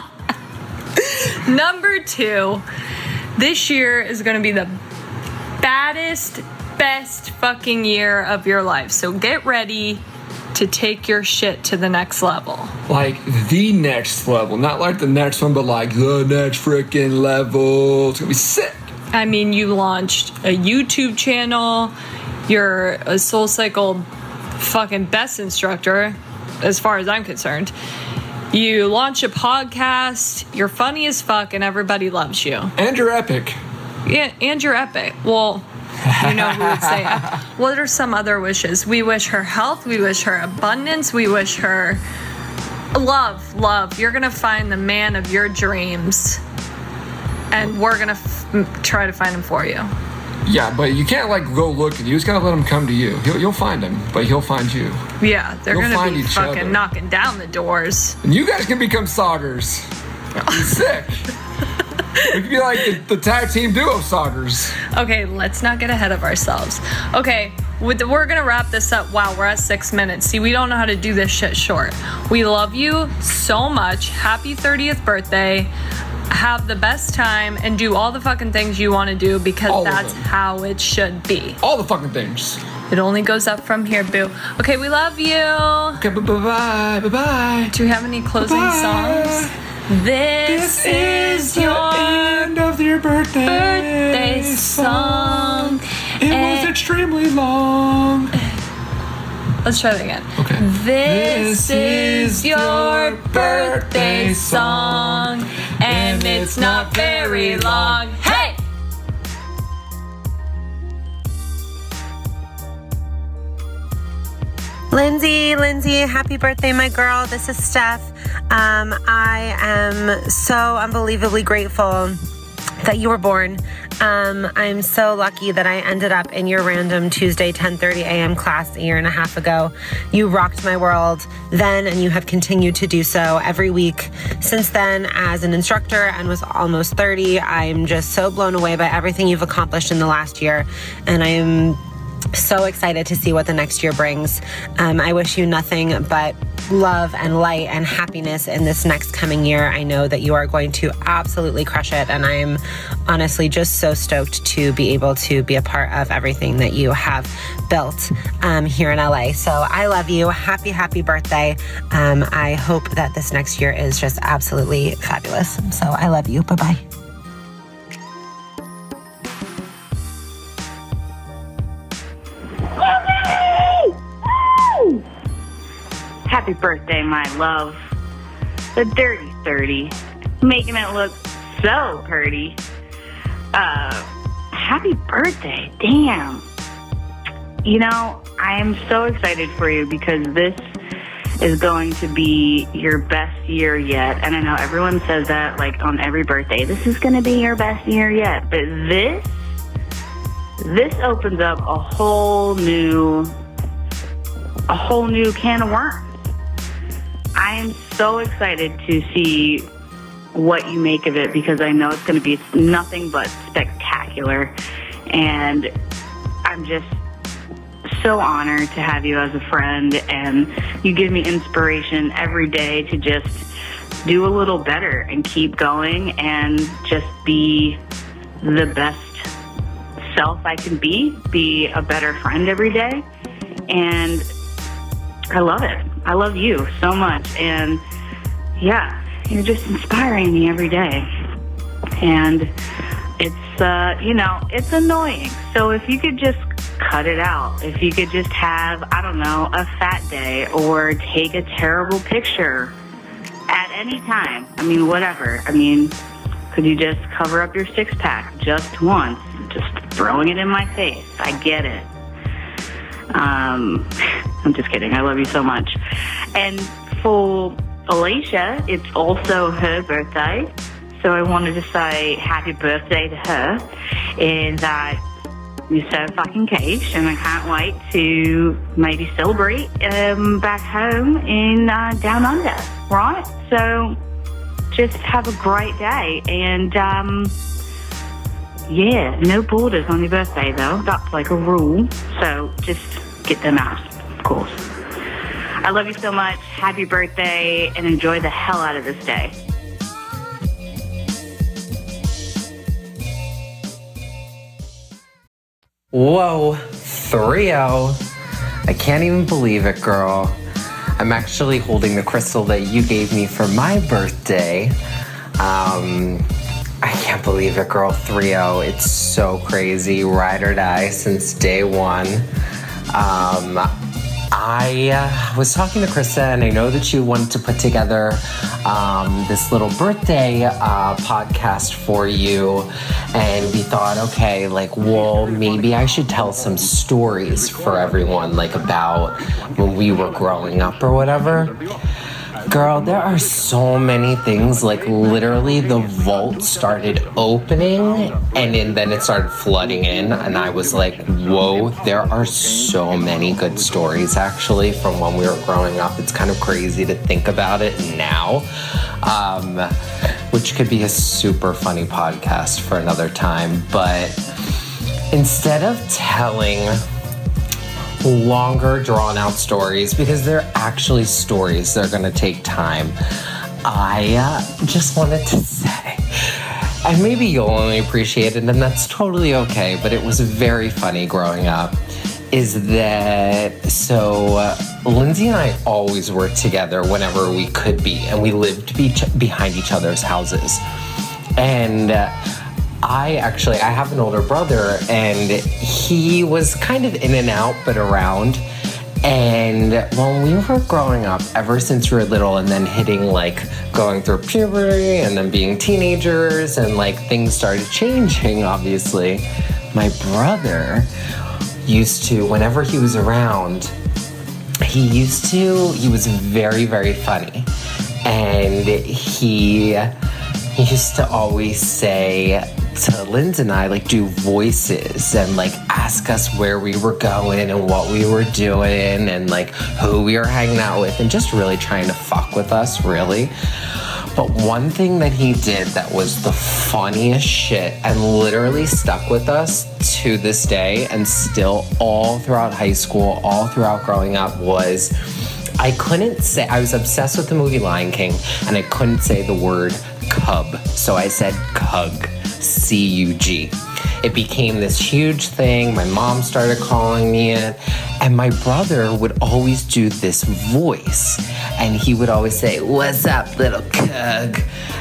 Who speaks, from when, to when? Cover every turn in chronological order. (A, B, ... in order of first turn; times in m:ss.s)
0:01.1-0:02.6 A
0:03.4-0:04.7 A
0:05.6-0:12.7 A
0:12.9-0:18.8 B
0:19.1-0:21.9 A
0:22.5-0:24.1 A
0:24.6-0:27.7 A
0:28.5-0:32.7 A
0:32.8-0:33.6 B
0:34.0-0:35.7 A
0:36.2-0:42.0 A
0:36.2-0:37.2 B
0:42.9-0:46.4 A
0:47.5-0:49.9 A
0:50.4-0:55.0 B
0:55.2-0:58.2 A
0:55.7-0:56.8 B
0:58.2-0:59.8 B
1:00.4-1:00.8 A
1:00.5-1:01.2 B
1:02.2-1:02.9 A
1:02.3-1:04.8 B
1:04.8-1:15.7 A
1:16.3-1:21.6 A
1:19.7-1:20.2 B
1:21.6-1:22.6 B
1:22.9-1:26.0 A
1:26.0-1:27.7 B
1:27.7-1:32.6 A
1:28.4-1:29.5 B
1:30.4-1:38.3 B
1:33.4-1:36.7 A
1:39.6-1:48.6 A
1:40.4-1:45.3 B
1:45.8-1:48.4 B
1:54.9-2:02.2 C
2:02.8-2:21.8 C
2:22.3-2:46.8 C
2:53.0-2:53.8 D
2:56.2-2:57.8 D
2:58.7-3:02.6 D
3:03.5-3:06.4 D
3:07.6-3:10.7 D
3:11.4-3:19.3 D
3:20.6-3:23.3 D
3:24.7-3:26.0 D
3:27.4-3:29.7 D
3:30.3-3:34.5 D
3:35.1-3:35.7 D
3:36.4-3:37.0 D
3:37.9-3:43.4 D
3:44.0-3:47.8 D
3:48.4-3:49.3 D
3:50.1-3:53.0 D
3:53.7-3:54.2 D
3:55.3-3:57.8 D
3:58.6-4:01.0 D
4:02.0-4:02.5 D
4:03.2-4:12.7 D
4:13.5-4:15.9 D
4:16.5-4:21.9 D
4:23.1-4:23.9 D
4:24.4-4:25.7 D
4:26.3-4:33.7 D
4:34.2-4:35.0 D
4:35.7-4:44.0 D
4:44.7-4:47.4 D
4:48.7-4:54.6 D
4:55.6-4:59.3 D
5:05.9-5:08.0 E
5:08.7-5:10.4 E
5:11.0-5:14.8 E
5:15.4-5:16.2 E
5:16.8-5:22.2 E
5:22.9-5:23.7 E
5:24.3-5:41.6 E
5:42.5-5:58.5 E
5:59.0-5:59.7 E
6:00.3-6:04.2 E
6:05.1-6:06.8 E
6:08.0-6:13.0 E
6:13.6-6:21.8 E
6:22.3-6:30.6 E
6:31.4-6:32.1 E
6:32.8-6:38.4 E
6:39.0-6:50.9 E
6:51.6-6:53.7 E
6:54.6-6:57.5 E
6:58.0-6:59.9 E
7:00.5-7:13.3 E
7:14.1-7:24.9 E
7:25.6-7:44.4 E